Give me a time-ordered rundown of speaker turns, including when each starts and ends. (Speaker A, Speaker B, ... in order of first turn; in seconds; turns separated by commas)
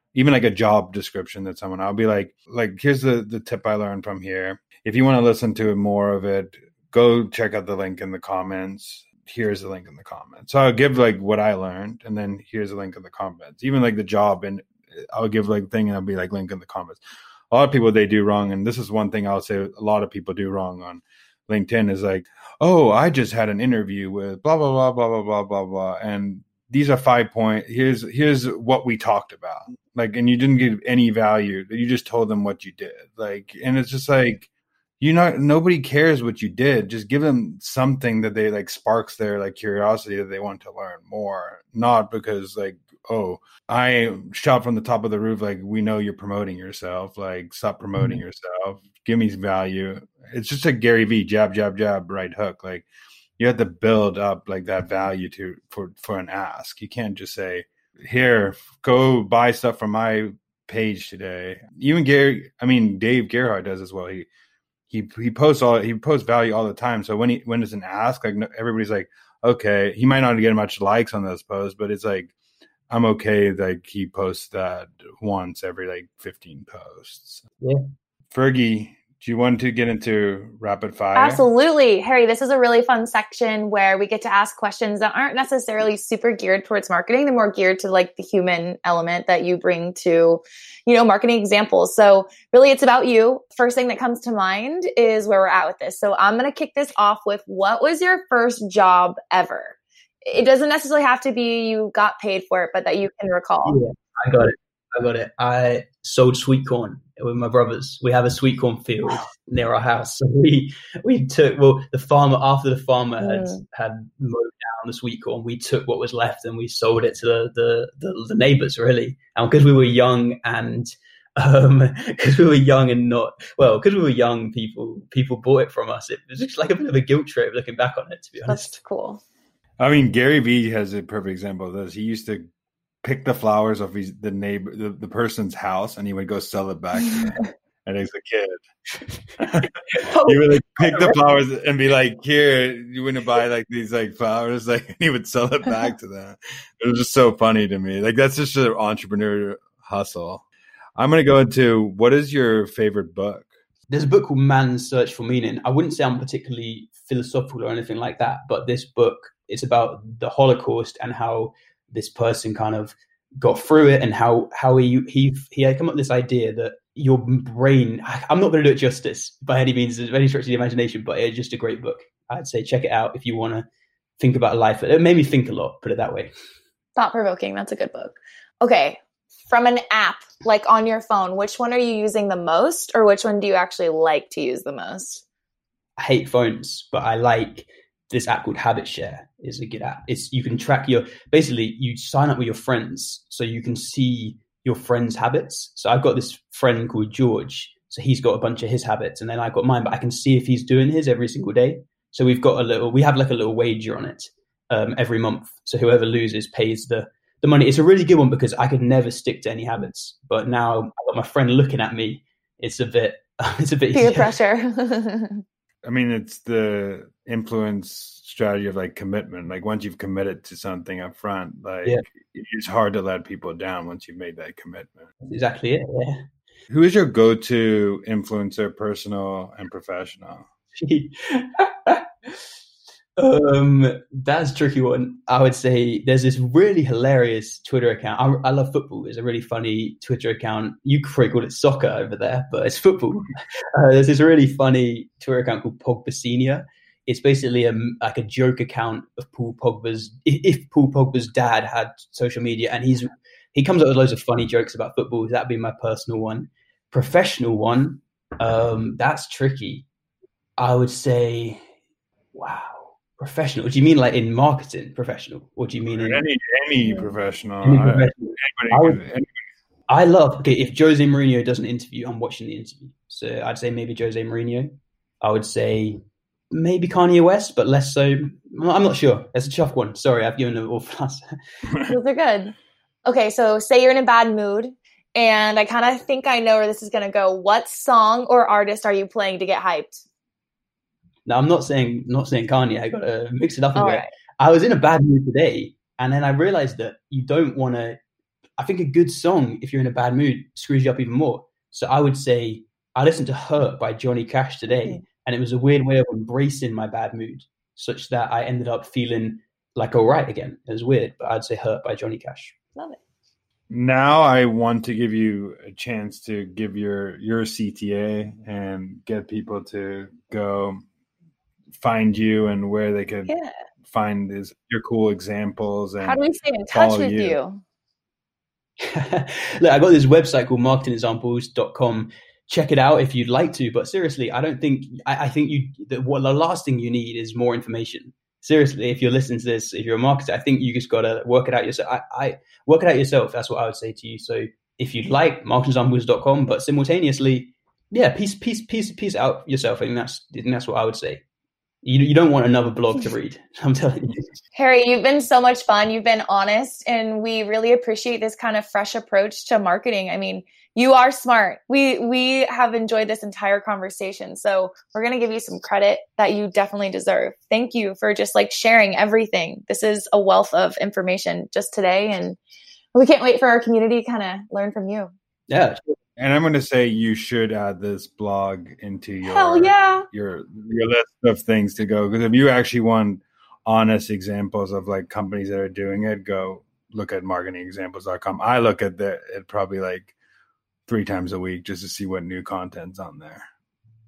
Speaker A: 0.1-52.9, Speaker A: 53.4-64.3, Speaker A: 64.9-72.3, Speaker A: 72.9-77.4, Speaker A: 78.3-81.4, Speaker B: 81.2-103.8, Speaker C: 103.6-128.8, Speaker B: 113.2-113.6, Speaker B: 128.5-129.2, Speaker A: 129.8-132.4, Speaker A: 133.0-138.6, Speaker A: 139.4-139.7, Speaker C: 139.4-140.4, Speaker A: 140.2-150.4, Speaker A: 151.0-153.5, Speaker C: 153.9-173.7, Speaker C: 174.2-176.3, Speaker B: 177.0-185.2, Speaker C: 186.0-214.4, Speaker B: 213.9-215.4, Speaker A: 215.8-225.1, Speaker C: 225.2-226.3, Speaker A: 226.7-230.4, Speaker C: 230.8-232.4, Speaker C: 233.2-259.9, Speaker C: 260.6-261.6, Speaker C: 262.3-266.2, Speaker A: 265.9-269.4, Speaker C: 267.6-269.0, Speaker C: 269.9-276.0, Speaker C: 276.5-281.2, Speaker B: 281.8-290.0, Speaker C: 291.3-298.0, Speaker B: 293.8-294.1, Speaker C: 298.6-312.6, Speaker A: 313.7-320.8, Speaker A: 321.8-323.3, Speaker A: 323.8-326.2, Speaker B: 326.0-327.6, Speaker A: 326.7-327.4, Speaker C: 328.8-351.2, Speaker C: 351.8-354.3, Speaker B: 354.6-372.4, Speaker B: 372.9-375.1, Speaker C: 375.5-376.0, Speaker A: 376.2-390.1, Speaker B: 379.2-380.1, Speaker A: 390.9-393.5